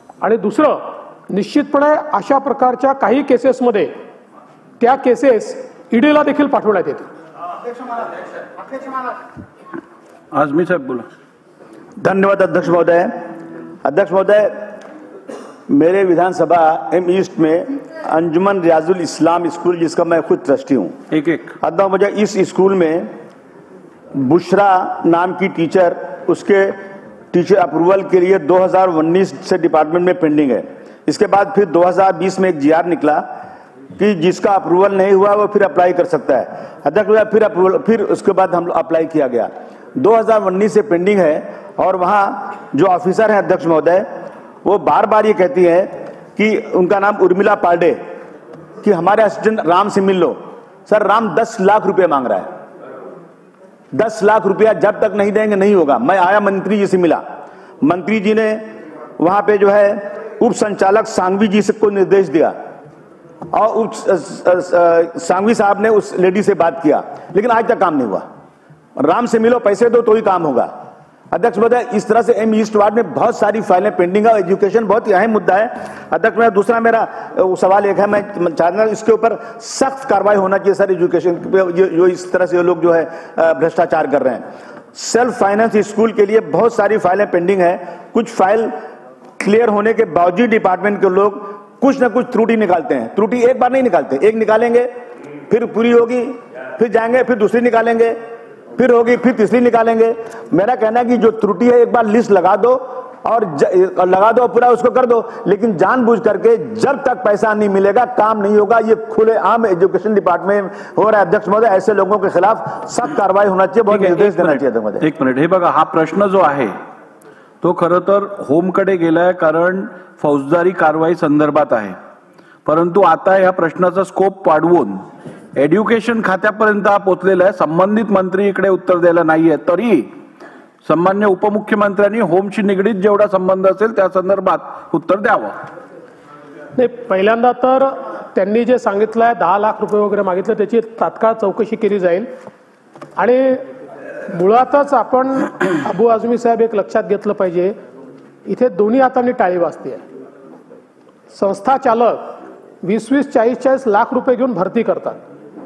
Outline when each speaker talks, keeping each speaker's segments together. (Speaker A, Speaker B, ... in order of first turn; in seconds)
Speaker A: 0.2-3.9, 4.8-7.1, 136.8-142.3, 143.2-143.6, 144.3-147.7, 148.5-150.0, 151.3-152.2, 152.8-155.2
Speaker B: 10.3-11.1, 21.1-21.5, 113.9-116.7, 117.6-122.0, 122.7-125.0, 125.6-130.1, 130.8-135.6
Speaker C: 12.0-13.1, 13.8-14.7, 15.7-21.0, 21.6-23.1, 24.1-26.8, 27.3-33.2, 34.0-44.1, 44.6-48.0, 48.8-52.5, 53.9-57.2, 57.8-62.5, 63.5-68.2, 69.0-70.7, 71.3-88.7, 89.4-94.9, 95.5-98.2, 98.8-115.0